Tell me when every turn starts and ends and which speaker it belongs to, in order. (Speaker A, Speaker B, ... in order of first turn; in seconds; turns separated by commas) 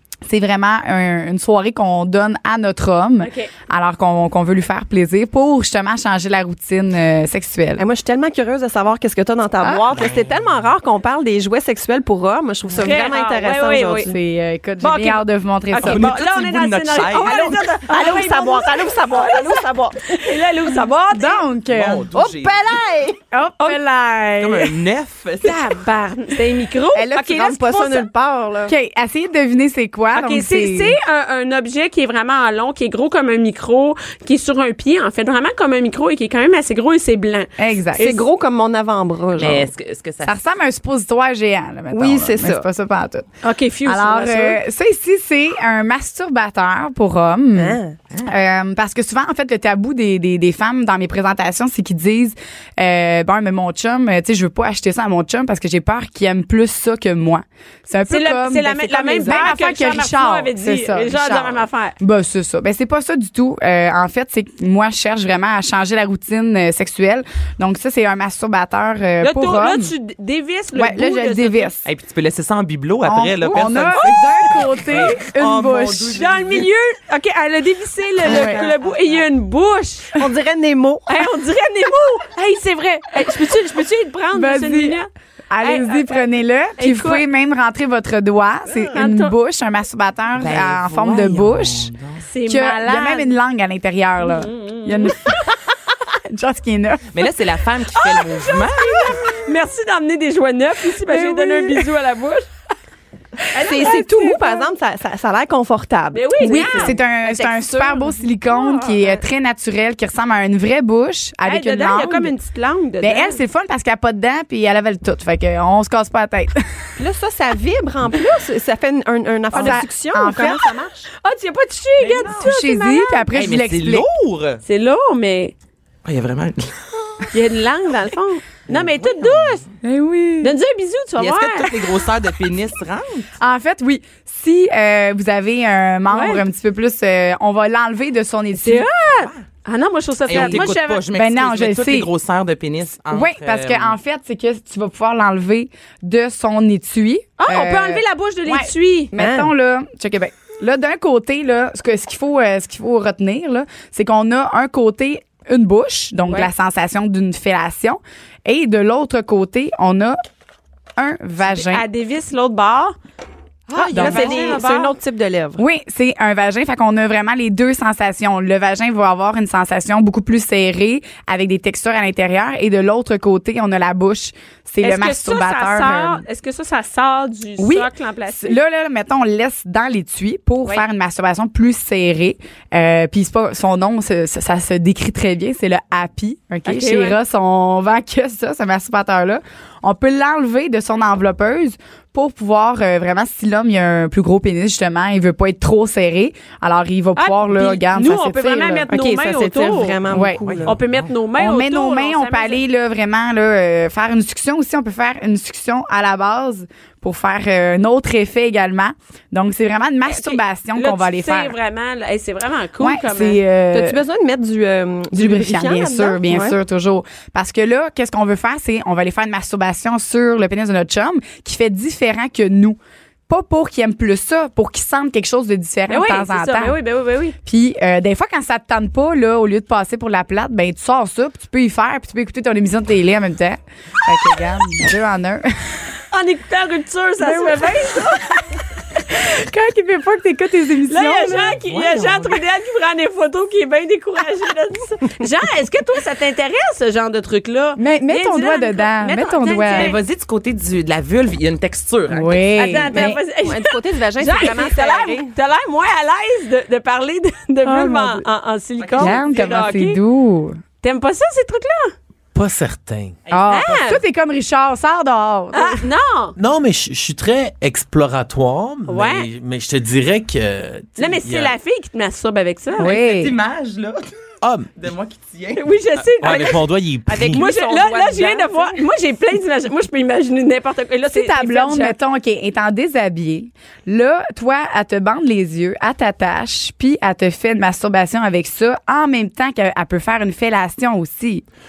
Speaker A: 0.3-7.8, Speaker B: 3.2-3.5, Speaker C: 7.8-14.2, Speaker B: 12.8-14.1, Speaker A: 14.1-16.1, Speaker B: 14.8-15.2, Speaker B: 15.7-21.4, Speaker D: 15.8-17.7, Speaker C: 17.3-20.4, Speaker A: 21.1-22.1, Speaker D: 21.7-22.8, Speaker C: 22.1-23.2, Speaker A: 23.3-24.7, Speaker D: 24.4-25.7, Speaker B: 25.4-28.1, Speaker C: 26.9-28.8, Speaker A: 28.7-31.0, Speaker B: 30.1-38.2, Speaker A: 37.6-38.1, Speaker C: 38.0-39.7, Speaker D: 39.4-40.4, Speaker A: 40.2-43.3, Speaker C: 41.9-42.7, Speaker B: 43.4-44.6, Speaker A: 43.9-69.9, Speaker C: 47.6-48.0, Speaker B: 58.1-62.0, Speaker B: 69.2-71.7, Speaker A: 70.8-71.9, Speaker D: 71.8-76.7, Speaker A: 73.0-76.2, Speaker B: 76.1-80.2, Speaker A: 78.2-78.7, Speaker D: 78.4-79.2, Speaker C: 80.2-81.1, Speaker B: 81.1-85.1, Speaker A: 84.3-91.9, Speaker B: 85.6-86.2, Speaker B: 86.8-87.2, Speaker B: 88.8-89.3, Speaker D: 90.3-92.2, Speaker B: 92.3-93.3, Speaker A: 92.5-95.5, Speaker B: 94.2-95.5, Speaker A: 96.3-97.1, Speaker D: 97.1-99.2, Speaker B: 98.0-102.5, Speaker A: 101.1-101.8, Speaker B: 103.5-104.6, Speaker C: 103.6-107.0, Speaker B: 106.1-109.0, Speaker A: 106.4-112.3, Speaker B: 111.4-113.4, Speaker A: 113.0-116.7, Speaker C: 117.0-121.1, Speaker A: 119.5-120.7, Speaker B: 119.6-119.8, Speaker B: 121.2-123.3, Speaker A: 122.1-124.1, Speaker D: 123.3-124.6, Speaker B: 124.7-125.5, Speaker D: 126.0-126.8, Speaker B: 127.3-129.7, Speaker D: 128.7-129.5, Speaker A: 129.8-130.6, Speaker B: 130.4-131.9, Speaker D: 131.2-133.3, Speaker A: 133.4-138.9, Speaker B: 136.1-136.4, Speaker B: 138.6-141.0, Speaker D: 140.3-144.0, Speaker A: 140.3-142.1, Speaker A: 143.1-160.2, Speaker B: 147.4-149.1, Speaker C: 149.2-149.5, Speaker A: 161.0-161.8, Speaker B: 161.4-163.0, Speaker C: 163.7-165.6, Speaker B: 163.8-164.9, Speaker A: 163.9-164.6, Speaker A: 165.6-176.2, Speaker B: 174.8-178.6, Speaker A: 177.6-198.9, Speaker B: 186.7-187.2, Speaker B: 197.2-200.1, Speaker C: 198.9-200.7, Speaker A: 200.1-200.5, Speaker D: 200.4-200.8, Speaker B: 200.6-202.6, Speaker A: 201.4-211.6, Speaker B: 210.1-213.4, Speaker A: 212.8-214.0, Speaker C: 213.7-216.6, Speaker A: 215.1-226.8, Speaker B: 225.9-227.3, Speaker A: 227.4-235.8, Speaker B: 236.1-238.6, Speaker A: 237.2-238.4, Speaker A: 239.1-241.7, Speaker B: 240.9-250.0, Speaker D: 241.7-242.3, Speaker A: 247.8-250.0, Speaker D: 249.7-252.5, Speaker A: 252.1-253.2, Speaker B: 252.6-260.0, Speaker C: 252.9-255.3, Speaker A: 257.6-258.2, Speaker D: 258.8-259.4, Speaker A: 259.0-260.6, Speaker B: 260.8-261.9, Speaker E: 262.3-263.2, Speaker D: 263.3-263.7, Speaker A: 263.3-265.8, Speaker B: 263.5-264.0, Speaker B: 265.5-266.4, Speaker E: 266.4-271.6, Speaker B: 268.9-269.3, Speaker B: 271.0-272.9, Speaker A: 272.8-273.4, Speaker D: 272.8-274.1, Speaker E: 274.4-274.7, Speaker D: 274.8-276.6, Speaker B: 275.6-276.6, Speaker E: 276.2-277.4, Speaker C: 277.1-278.8, Speaker B: 277.3-281.9, Speaker A: 281.1-291.4